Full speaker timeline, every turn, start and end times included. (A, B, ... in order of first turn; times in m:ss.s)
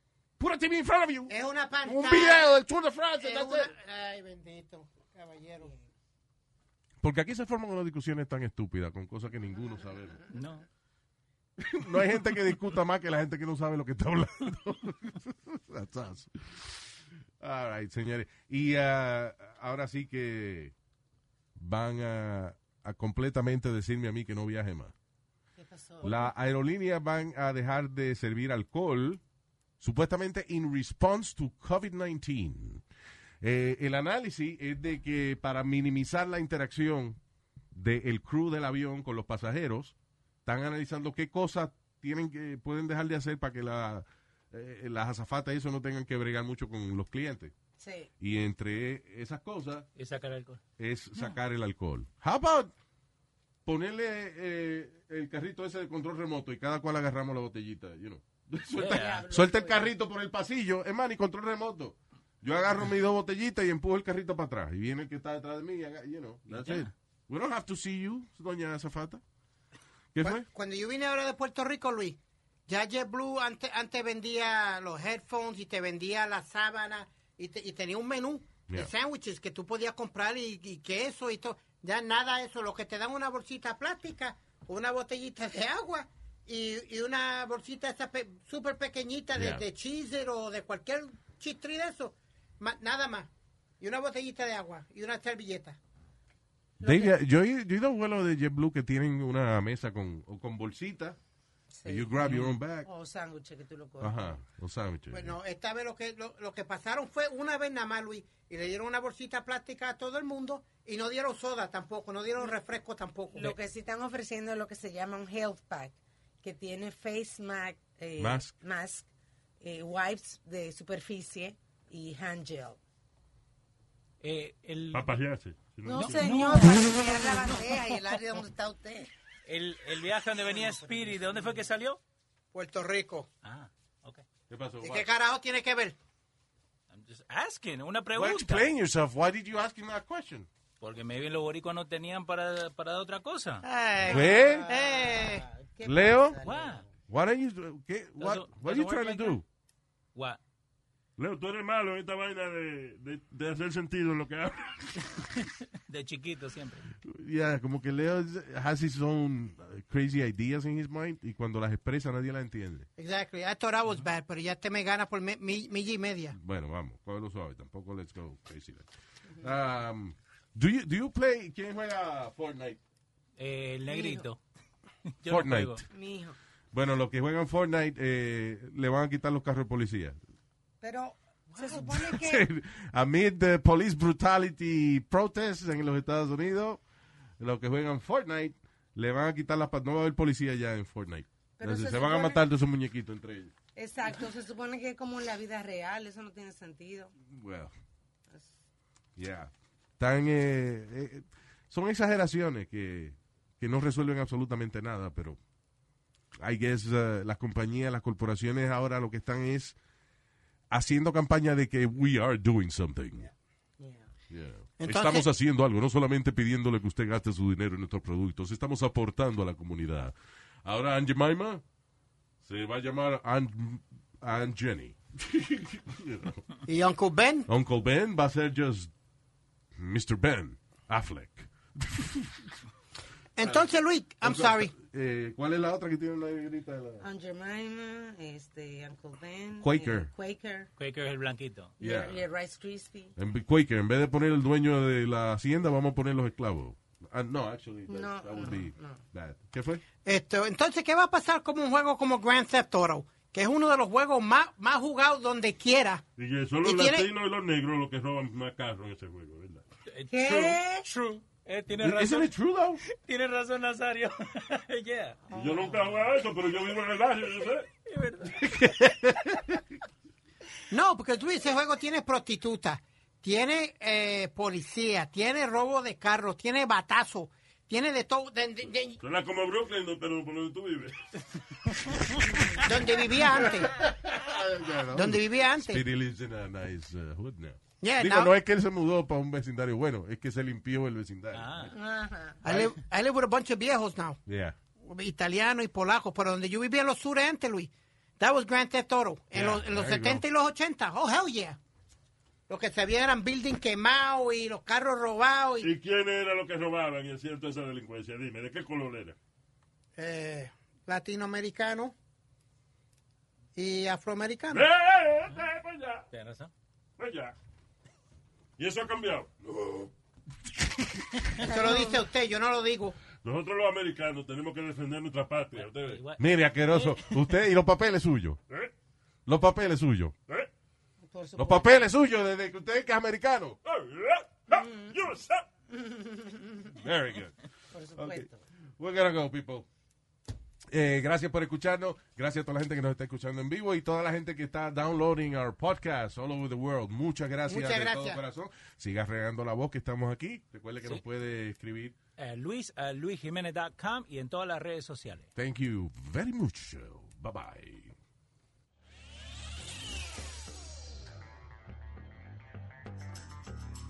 0:00.4-0:01.3 A
0:01.3-0:02.5 B
0:01.8-0:03.7 A
0:03.2-0:05.8 B
0:07.0-0:10.4 A
0:10.3-0:10.7 C
0:11.6-0:20.7 A
0:21.6-0:25.0 A
0:25.6-0:26.3 D
0:26.0-0:29.2 A
0:29.8-0:32.8 A
0:33.4-0:37.2 A
0:37.7-0:40.0 A
0:40.5-0:47.5 A
0:47.8-0:48.1 D
0:48.2-0:49.9 A
0:50.0-0:50.6 C
0:50.8-0:52.7 A
0:53.7-1:09.2 A
0:58.8-0:59.2 C
0:58.8-0:59.9 D
1:06.5-1:06.9 C
1:10.1-1:10.5 A
1:10.2-1:35.8 B
1:29.3-1:29.7 A
1:36.8-1:37.2 D
1:36.8-1:41.2 A
1:41.7-1:42.3 D
1:41.9-1:42.9 A
1:42.2-1:42.5 C
1:42.8-1:44.4 D
1:44.0-1:45.4 A
1:45.1-1:53.6 B
1:53.3-1:59.1 D
1:58.2-1:58.5 A
1:59.6-2:02.8 D
2:04.2-2:05.1 C
2:04.9-2:06.3 E
2:05.8-2:09.1 D
2:06.0-2:07.0 C
2:09.5-2:12.0 C
2:10.5-2:11.3 D
2:12.5-2:13.3 B
2:13.4-2:14.2 C
2:14.5-2:15.1 A
2:14.8-2:16.0 B
2:16.9-2:18.7 C
2:18.1-2:20.5 A
2:20.8-2:23.6 C
2:23.6-2:25.4 B
2:24.0-2:24.7 A
2:24.1-2:26.9 D
2:25.8-2:26.4 A
2:26.4-2:26.8 C
2:27.1-2:29.4 A
2:28.2-2:29.4 C
2:31.2-2:34.8 E
2:35.9-2:36.9 C
2:37.1-2:42.9 A
2:43.0-2:46.4 B
2:46.3-2:48.9 A
2:49.4-2:52.8 A
2:53.4-2:54.4 C
2:53.9-2:54.3 D
2:55.1-2:55.8 C
2:55.2-2:55.8 A
2:55.9-2:56.4 D
2:56.7-3:00.2 A
3:00.8-3:02.5 D
3:01.6-3:06.8 A
3:07.4-3:13.5 A
3:11.6-3:12.4 D
3:13.8-3:17.1 D
3:17.3-3:17.7 A
3:19.2-3:25.4 A
3:26.4-3:29.8 A
3:30.7-3:33.3 A
3:33.8-3:34.1 D
3:34.3-3:40.1 A
3:34.8-3:35.3 B
3:40.6-3:41.6 A
3:42.4-3:46.4 A
3:46.7-3:47.5 B
3:47.5-3:48.9 A
3:49.8-3:52.5 A
3:53.4-3:54.7 B
3:53.4-3:53.7 A
3:54.2-3:57.0 A
3:57.0-4:00.7 D
3:59.6-4:00.1 A
4:00.8-4:01.7 C
4:01.8-4:02.3 A
4:01.8-4:03.2 D
4:03.2-4:09.8 A
4:07.9-4:09.0 D
4:10.0-4:16.0 B
4:16.2-4:19.6 E
4:16.6-4:17.1 B
4:19.9-4:22.3 C
4:20.1-4:20.8 D
4:21.8-4:22.8 A
4:22.9-4:25.2 C
4:25.3-4:25.9 D
4:25.3-4:27.7 E
4:27.9-4:28.5 C
4:28.4-4:29.6 A
4:30.7-4:39.0 B
4:39.0-4:41.0 E
4:42.6-4:43.7 B
4:43.4-4:51.7 A
4:44.9-4:45.8 B
4:47.8-4:48.3 B
4:51.3-4:51.7 C
4:51.7-4:52.4 D
4:52.4-4:54.2 B
4:52.4-4:52.7 A
4:54.3-4:54.6 A
4:54.8-5:01.6 B
4:59.3-5:00.2 A
5:02.5-5:05.7 B
5:05.6-5:09.2 E
5:10.0-5:11.9 B
5:13.6-5:14.7 B
5:14.5-5:16.0 E
5:16.1-5:16.5 C
5:17.0-5:17.3 E
5:18.6-5:19.4 E
5:19.6-5:19.9 A
5:21.4-5:23.0 B
5:21.4-5:22.0 D
5:23.2-5:26.0 E
5:25.6-5:27.2 C
5:26.2-5:28.4 A
5:29.3-5:30.1 A
5:31.0-5:31.9 D
5:31.4-5:33.6 A
5:33.6-5:35.5 E
5:34.6-5:34.9 D
5:36.8-5:37.4 A
5:37.7-5:38.4 D
5:38.0-5:38.3 A
5:38.8-5:39.7 A
5:40.7-5:52.0 A
5:47.5-5:48.2 B
5:52.2-5:55.3 C
5:55.4-5:57.9 A